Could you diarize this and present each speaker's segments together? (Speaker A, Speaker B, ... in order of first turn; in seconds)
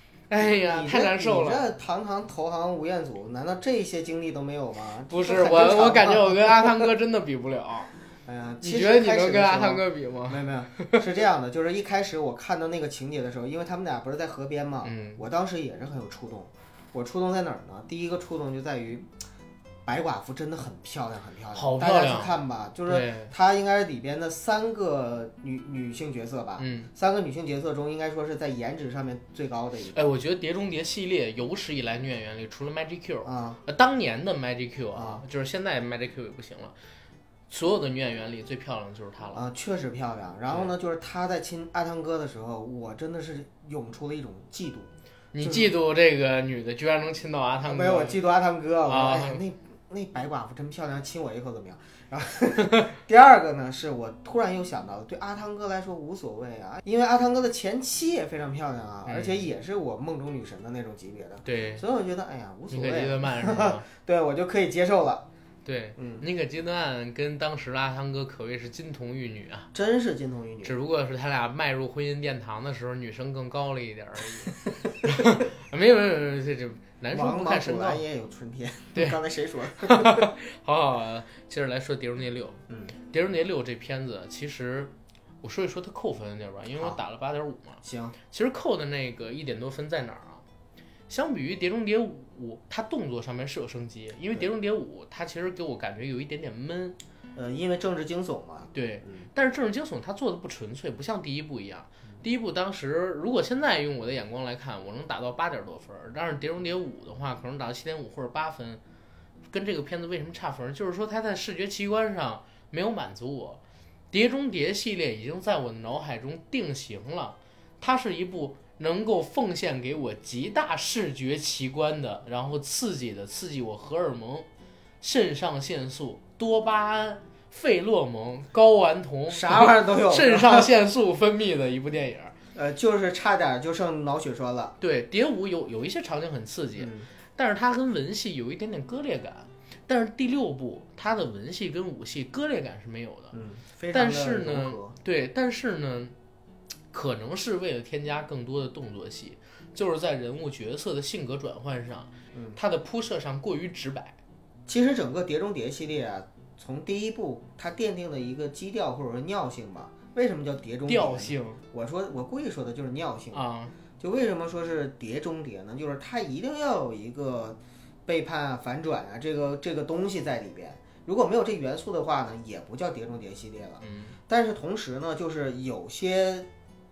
Speaker A: 0.3-1.6, 5.1-7.9, 8.6-11.0, 14.8-15.2, 21.5-23.3, 26.6-26.9, 29.9-36.7, 37.5-39.4, 45.3-48.2, 48.9-49.4, 59.0-59.4, 61.4-61.8, 62.7-63.8, 65.6-69.7, 70.6-78.0, 79.8-90.4, 91.1-97.0, 98.7-108.8, 109.5-124.5, 125.0-132.3, 134.8-143.3, 143.9-146.1, 146.9-154.2, 160.9-161.6, 163.3-163.7, 173.8-174.2
Speaker B: 0.4-6.9, 8.2-19.1, 19.8-30.0, 33.2-33.6, 34.9-35.2, 39.3-45.7, 47.6-65.2, 66.0-66.2, 69.7-70.7, 77.1-80.3, 82.7-82.9, 87.8-88.2, 97.3-99.3, 129.3-130.7, 132.5-134.8, 136.8-137.1, 143.3-144.9, 154.7-163.4, 164.0-176.5